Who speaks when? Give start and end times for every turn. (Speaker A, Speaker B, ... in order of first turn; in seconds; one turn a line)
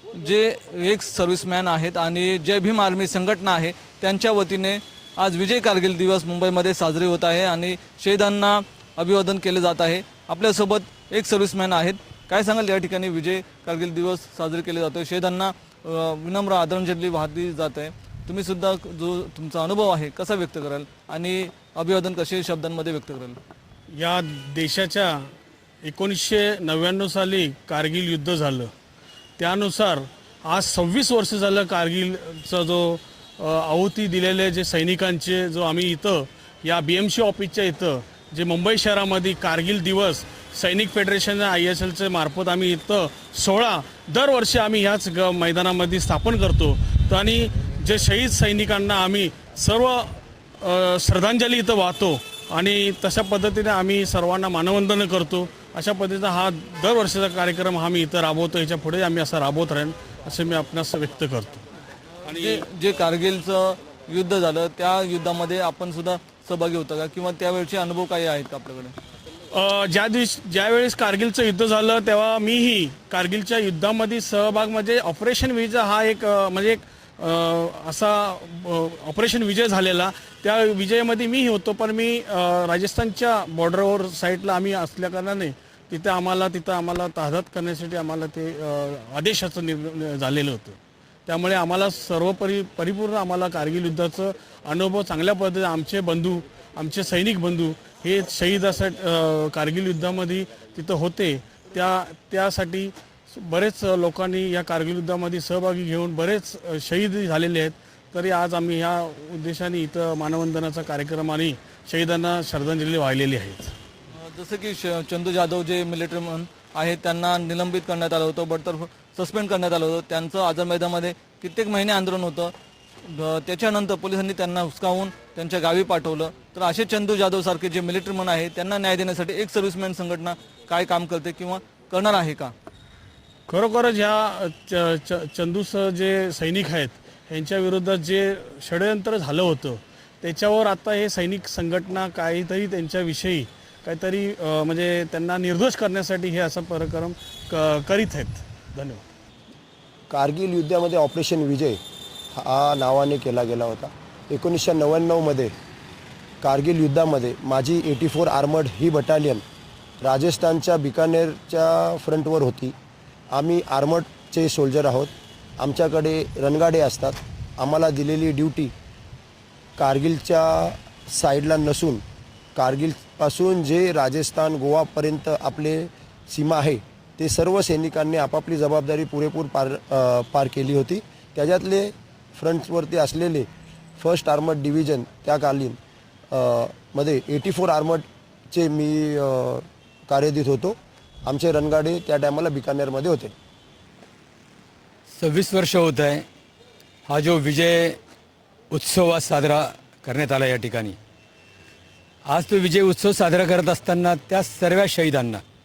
Speaker A: 0.1-23.4
Speaker B: 23.9-25.3
Speaker B: 25.8-28.7
Speaker B: 29.4-61.6
Speaker B: 62.3-62.6
Speaker A: 62.3-68.9
Speaker B: 69.5-113.7
Speaker A: 114.2-122.5
Speaker A: 123.1-132.5
Speaker B: 133.5-149.0
Speaker C: 150.1-151.8
Speaker C: 152.3-155.5
Speaker C: 156.4-159.4
Speaker C: 160.0-162.7
Speaker C: 163.3-168.7
Speaker C: 169.8-172.0
Speaker C: 172.6-183.5
Speaker C: 184.0-185.8
Speaker C: 186.3-193.3
Speaker D: 195.1-196.2
Speaker D: 197.1-198.0
Speaker D: 198.7-201.0
Speaker D: 202.3-205.4